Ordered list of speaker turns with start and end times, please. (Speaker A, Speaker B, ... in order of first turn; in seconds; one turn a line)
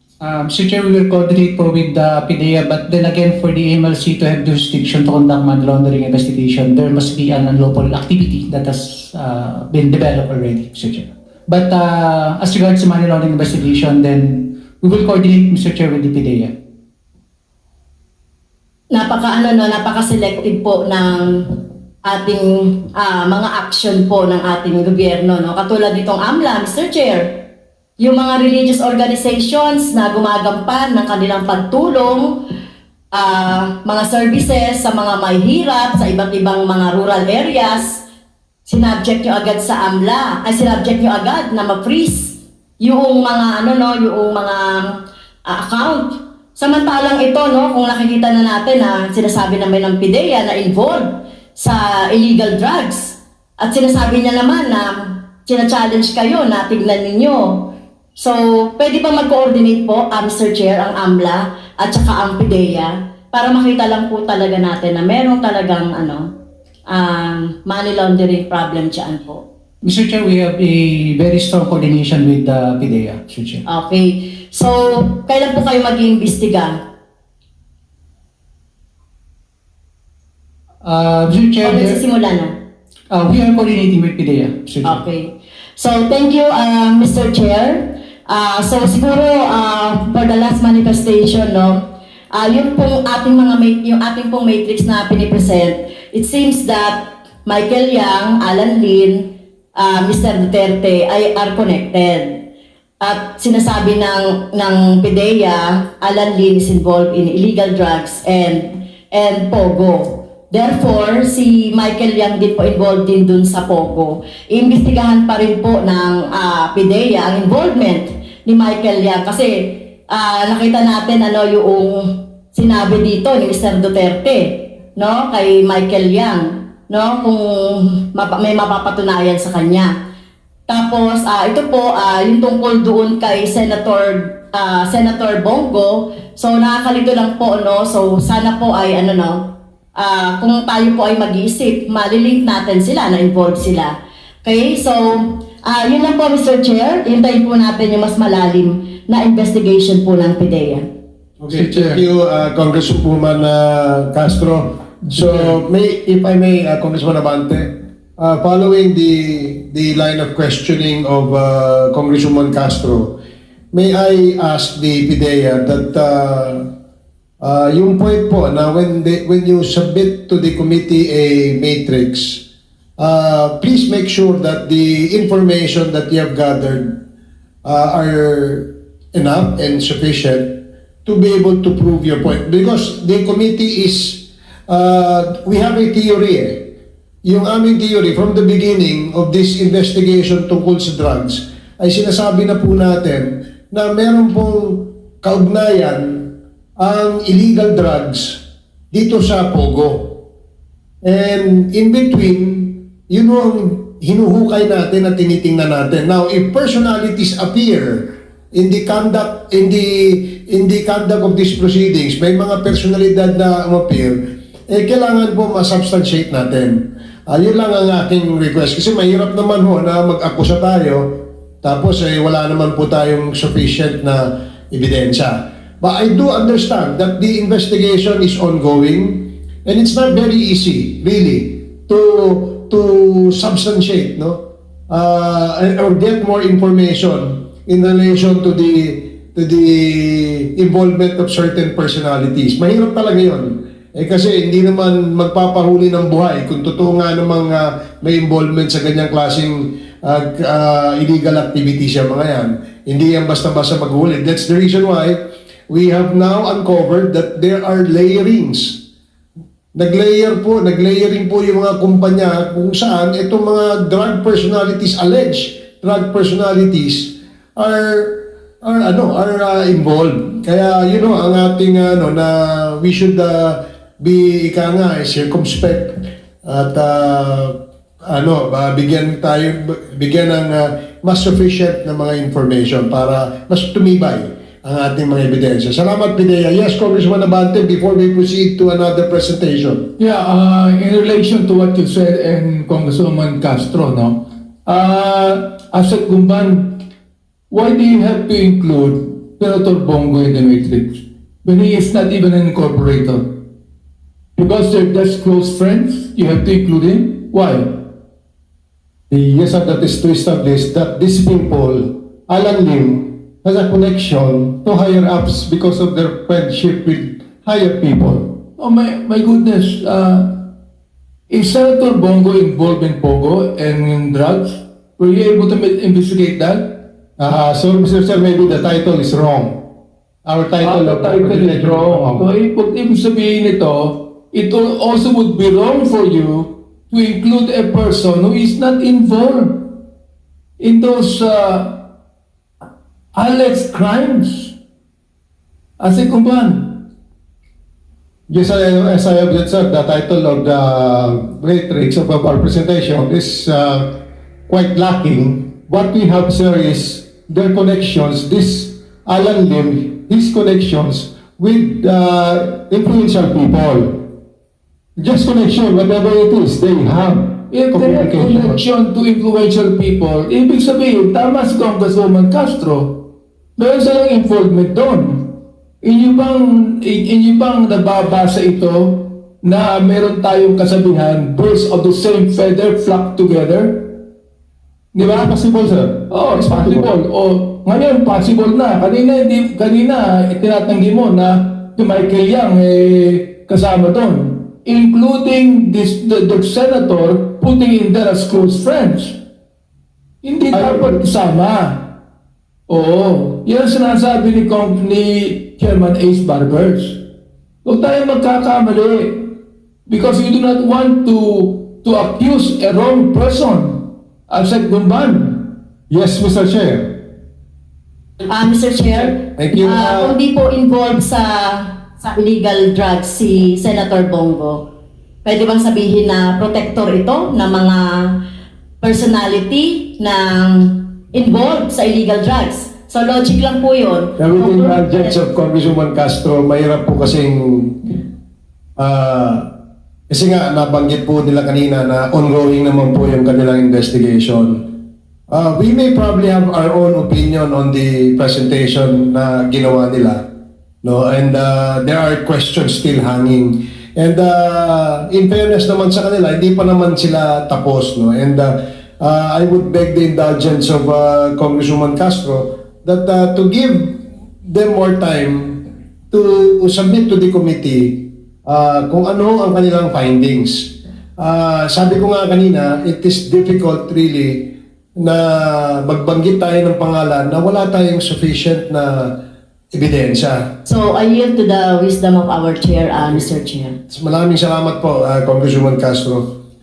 Speaker A: 0.2-16.5
Speaker B: 18.9-27.4
Speaker B: 28.0-32.4
Speaker B: 33.1-38.0
Speaker B: 38.7-66.3
Speaker B: 66.9-69.4
Speaker A: 69.8-73.6
Speaker B: 73.7-76.8
Speaker A: 80.8-82.0
Speaker B: 81.6-82.5
Speaker A: 83.1-85.0
Speaker B: 84.8-102.4
Speaker B: 103.0-129.9
Speaker B: 130.7-150.9
Speaker C: 151.4-163.1
Speaker D: 151.5-152.0
Speaker D: 155.1-155.6
Speaker C: 163.7-166.7
Speaker C: 167.4-172.4
Speaker C: 173.0-177.0
Speaker C: 177.7-200.2
Speaker C: 201.0-214.2
Speaker C: 214.7-258.8
Speaker C: 259.8-277.6
Speaker C: 278.1-289.9
Speaker D: 290.0-296.8
Speaker D: 297.5-303.3
Speaker D: 304.4-307.9
Speaker E: 309.1-318.4
Speaker D: 318.6-320.5
Speaker D: 321.3-326.8
Speaker E: 327.2-329.7
Speaker E: 330.2-332.3
Speaker D: 330.6-339.8
Speaker D: 340.6-341.9
Speaker D: 343.1-344.6
Speaker D: 345.8-346.9
Speaker E: 348.3-364.1
Speaker E: 365.0-368.6
Speaker D: 367.5-373.0
Speaker D: 373.6-384.0
Speaker D: 384.9-385.3
Speaker E: 385.0-386.9
Speaker D: 386.1-399.2
Speaker D: 400.2-401.9
Speaker E: 400.5-401.0
Speaker D: 402.7-407.0
Speaker D: 407.6-415.6
Speaker E: 415.9-417.0
Speaker B: 418.3-424.6
Speaker E: 419.4-420.1
Speaker B: 425.2-428.2
Speaker B: 428.8-435.2
Speaker C: 434.2-437.9
Speaker C: 438.8-439.5
Speaker C: 440.1-444.7
Speaker C: 445.3-450.2
Speaker C: 450.8-479.1
Speaker C: 479.7-480.5
Speaker B: 480.7-483.8
Speaker C: 483.9-486.2